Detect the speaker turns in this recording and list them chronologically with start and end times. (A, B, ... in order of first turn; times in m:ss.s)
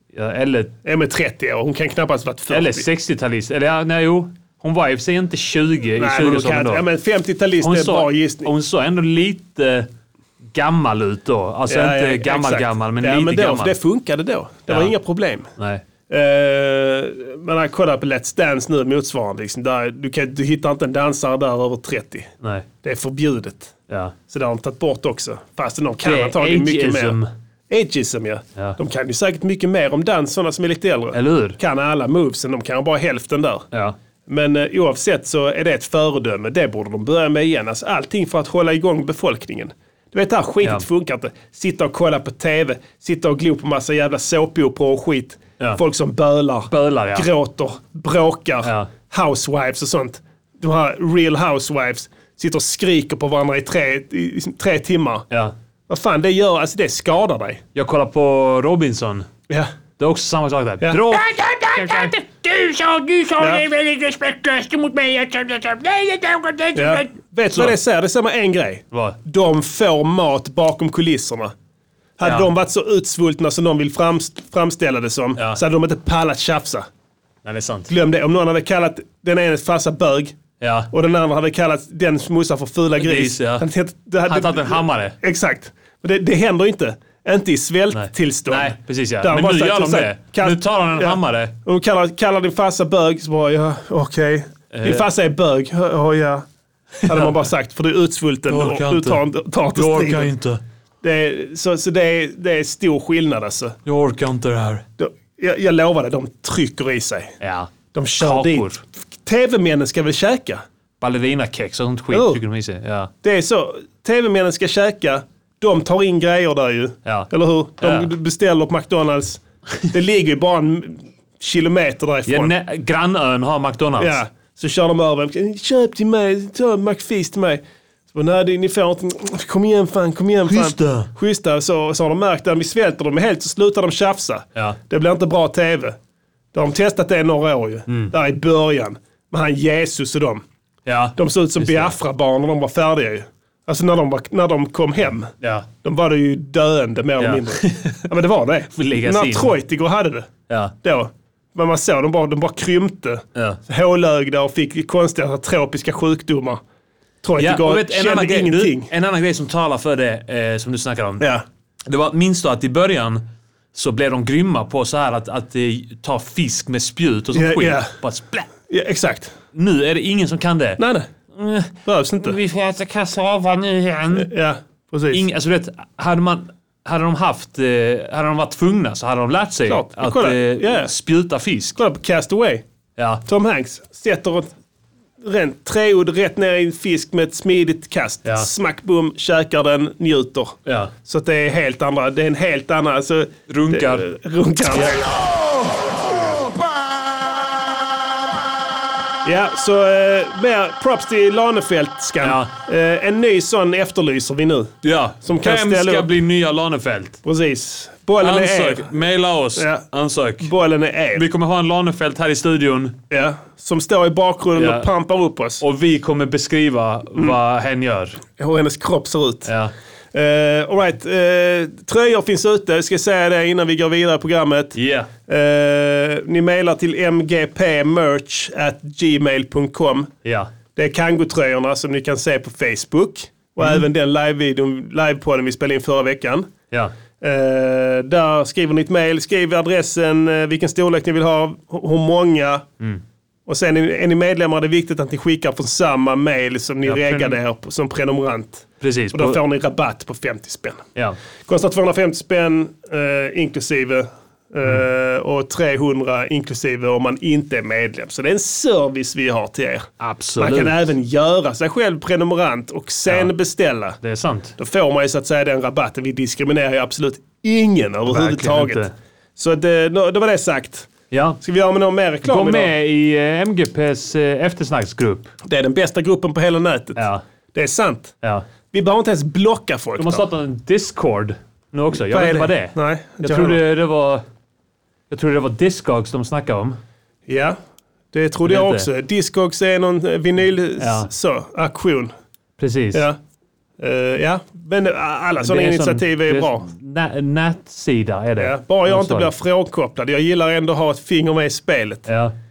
0:00.1-0:00.7 A
0:00.8-0:02.9 B
0:02.5-0:06.8 A
0:06.0-0:08.5 B
0:07.6-0:09.9 A
0:10.5-0:13.8 A
0:11.7-0:15.5 B
0:14.7-0:14.9 A
0:15.6-0:15.8 A
0:16.1-0:22.3 B
0:22.8-0:23.7 B
0:23.9-0:24.1 A
0:24.3-0:33.6 B
0:26.0-0:27.3 A
0:31.1-0:31.6 A
0:34.3-0:55.2 B
0:46.7-0:47.3 A
0:48.6-0:48.9 A
0:55.9-0:57.6 B
0:57.7-0:59.3 A
1:00.0-1:02.1 A
1:00.8-1:01.2 B
1:01.8-1:05.1 C
1:03.4-1:03.6 B
1:05.8-1:06.8 C
1:06.7-1:11.5 B
1:08.9-1:09.2 A
1:12.2-1:16.9 B
1:12.2-1:12.5 A
1:15.4-1:15.6 A
1:17.4-1:17.9 A
1:17.9-1:20.4 B
1:20.6-1:20.9 A
1:20.9-1:36.4 B
1:23.0-1:23.7 A
1:24.2-1:25.2 A
1:27.9-1:31.5 A
1:34.7-1:35.0 A
1:37.0-1:40.3 B
1:37.0-1:37.3 A
1:38.5-1:39.0 C
1:39.8-1:40.6 C
1:41.0-1:43.8 B
1:43.8-1:44.8 A
1:45.0-1:47.4 B
1:47.4-1:48.8 A
1:47.9-1:50.6 B
1:51.0-1:53.1 A
1:52.1-1:52.4 B
1:53.2-2:02.5 B
1:57.0-1:58.1 A
2:02.3-2:04.2 A
2:04.0-2:16.0 B
2:10.5-2:11.1 A
2:16.5-2:20.4 B
2:17.9-2:18.1 A
2:20.8-2:21.9 A
2:21.2-2:25.3 B
2:25.4-2:25.7 A
2:25.8-2:30.3 B
2:27.2-2:28.0 A
2:28.7-2:29.6 A
2:30.5-2:30.7 A
2:30.8-2:36.6 B
2:33.3-2:33.6 A
2:37.2-2:38.9 B
2:37.4-2:41.3 A
2:41.9-2:43.2 A
2:43.7-2:48.5 A
2:47.3-2:47.9 B
2:48.7-2:49.3 B
2:49.5-2:50.8 A
2:50.8-2:51.1 B
2:51.3-2:54.3 A
2:51.8-2:52.4 B
2:54.1-2:55.2 B
2:55.1-3:01.8 A
2:59.7-3:00.9 B
3:01.8-3:02.6 B
3:03.0-3:03.2 A
3:03.2-3:04.5 B
3:05.2-3:15.3 B
3:10.6-3:10.9 A
3:13.5-3:14.1 A
3:14.7-3:15.0 A
3:19.2-3:26.1 B
3:22.2-3:22.5 A
3:24.8-3:27.2 A
3:27.2-3:28.9 B
3:28.2-3:30.5 A
3:29.6-3:29.8 B
3:30.4-3:31.2 B
3:31.1-3:33.0 A
3:33.1-3:35.6 B
3:34.5-3:34.9 A
3:35.6-3:38.2 A
3:38.4-3:39.5 B
3:39.4-3:39.7 A
3:40.1-3:50.1 B
3:44.7-3:45.1 A
3:50.2-3:50.5 A
3:50.7-3:56.5 B
3:57.2-4:02.6 B
4:03.5-4:10.8 B
4:06.8-4:07.4 A
4:08.8-4:09.4 A
4:11.4-4:24.0 B
4:20.0-4:20.8 A
4:24.0-4:24.6 A
4:24.6-4:30.9 B
4:28.1-4:28.9 A
4:31.1-4:31.4 A
4:31.4-4:32.7 B
4:32.2-4:35.3 A
4:35.4-4:38.1 B
4:37.0-4:37.2 A
4:38.7-4:40.3 B
4:40.0-4:44.2 A
4:41.9-4:43.6 B
4:45.1-4:46.8 A
4:47.3-4:47.6 B
4:48.1-4:52.1 B
4:48.4-4:48.9 A
4:50.8-4:51.1 A
4:52.6-4:53.1 A
4:52.9-4:53.2 B
4:53.8-4:56.7 B
4:55.4-4:59.3 A
4:58.4-5:02.1 B
5:02.1-5:02.3 A